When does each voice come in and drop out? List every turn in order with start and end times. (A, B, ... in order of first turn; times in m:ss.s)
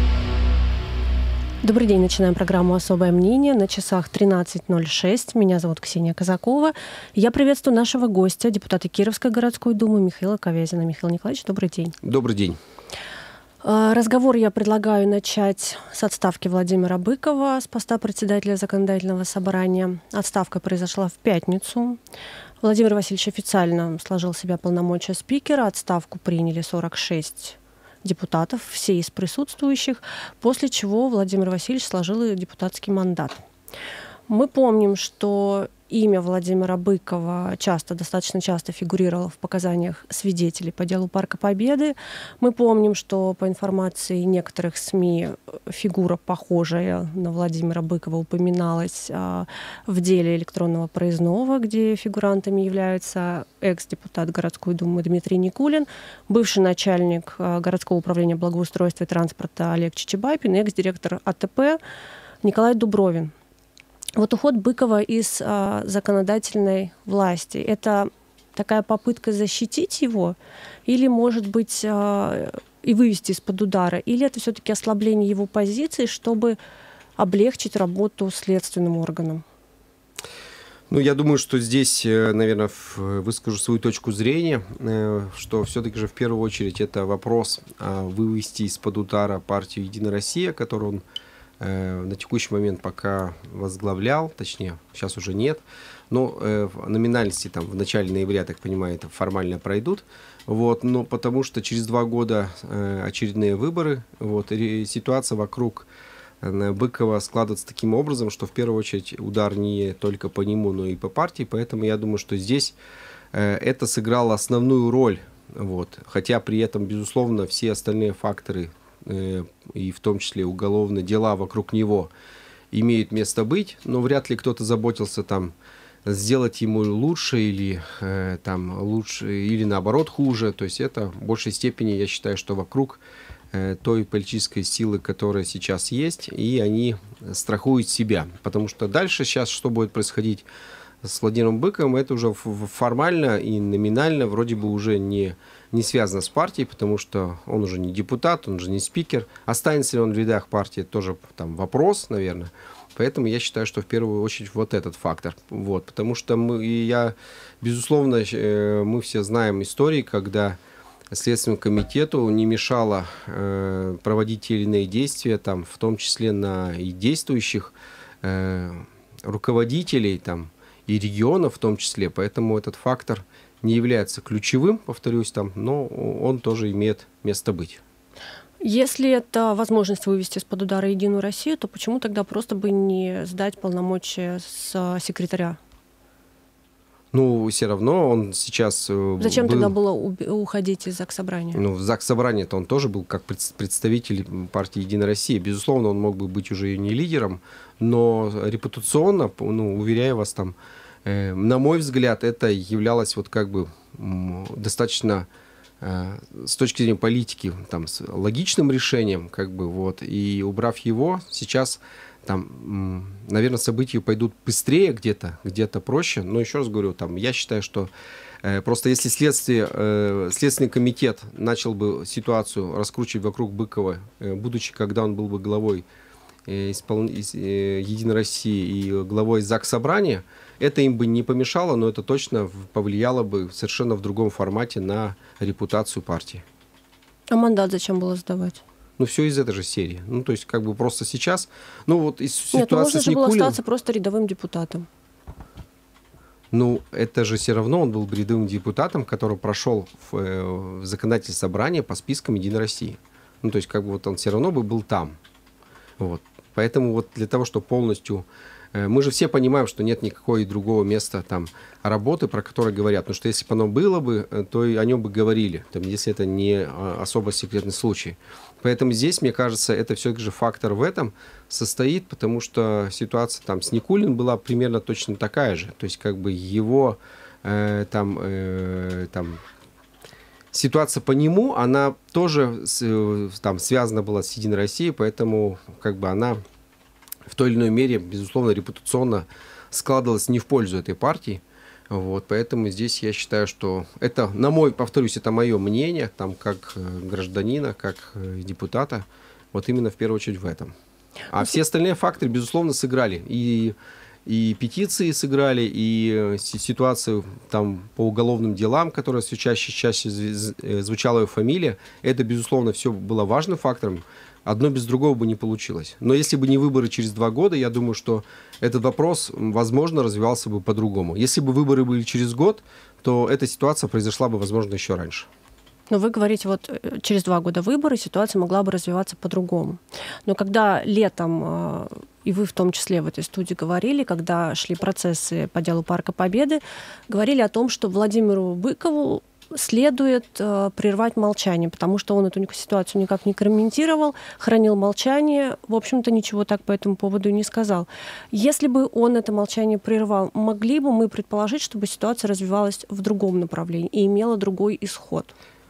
0:01.6-0:12.0 A
0:12.0-0:12.6 B
0:13.6-0:22.0 A
0:22.6-0:33.4 A
0:34.3-1:01.8 A
1:02.4-1:03.3 A
1:04.2-1:16.6 A
1:17.2-1:19.4 A
1:20.9-1:31.0 B
1:31.6-1:45.9 B
1:46.4-1:52.8 B
1:53.3-2:02.1 B
2:02.7-2:05.5 B
2:06.0-2:20.5 B
2:21.0-2:40.6 B
2:41.1-2:57.8 B
2:58.6-3:05.6 A
3:07.1-3:09.7 B
3:09.2-3:11.6 A
3:11.5-3:25.3 B
3:25.8-3:37.9 B
3:38.4-3:45.8 B
3:46.4-3:56.4 B
3:57.3-3:58.6 A
3:59.0-4:03.6 B
4:02.5-4:04.9 A
4:06.5-4:15.2 B
4:16.0-4:39.4 B
4:40.5-4:46.4 B
4:47.3-5:00.7 B
5:01.3-5:25.3 B
5:25.9-5:55.3 A